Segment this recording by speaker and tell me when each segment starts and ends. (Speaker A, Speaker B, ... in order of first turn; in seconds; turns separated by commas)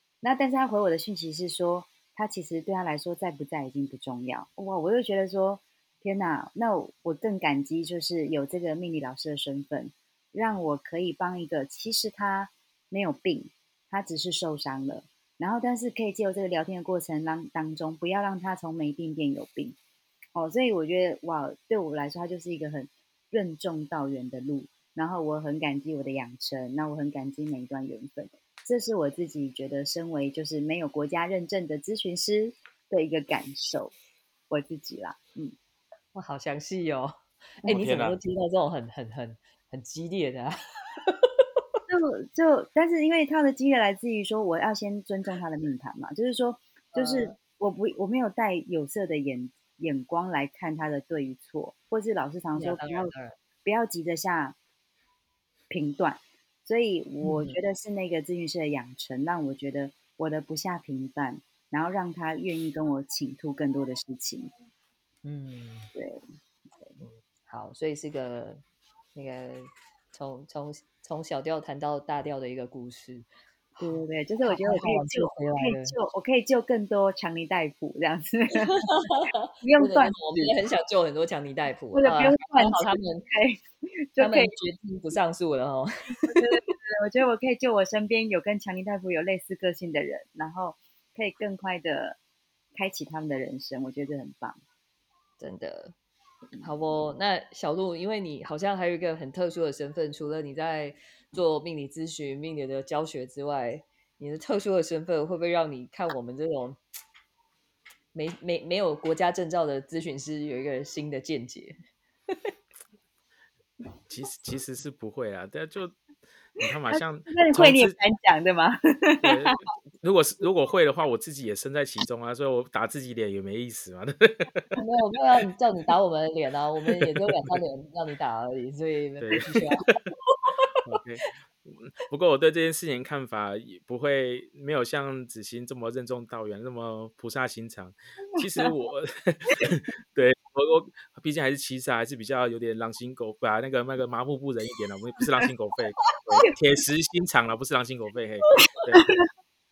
Speaker A: 0.2-19.8, Speaker A: 20.4-33.9, Speaker A: 34.5-35.5, Speaker B: 36.1-37.1, Speaker B: 37.6-41.5, Speaker C: 37.7-38.2, Speaker A: 41.9-53.1, Speaker B: 46.9-47.4, Speaker B: 52.6-53.4, Speaker A: 53.6-54.6, Speaker A: 55.7-64.5, Speaker B: 57.2-57.6, Speaker B: 65.2-65.9, Speaker A: 66.0-66.2, Speaker B: 67.0-68.6, Speaker B: 69.2-76.0, Speaker A: 73.8-79.1, Speaker B: 78.7-83.3, Speaker A: 79.6-80.5, Speaker A: 82.0-84.5, Speaker B: 84.2-86.7, Speaker A: 86.3-92.2, Speaker A: 92.8-94.6, Speaker B: 95.4-95.9, Speaker B: 96.6-106.8, Speaker B: 108.1-111.8, Speaker C: 114.1-116.0, Speaker C: 116.6-118.0, Speaker A: 116.9-119.6, Speaker C: 119.2-124.7, Speaker B: 124.8-129.9, Speaker C: 129.2-129.5, Speaker C: 130.8-149.1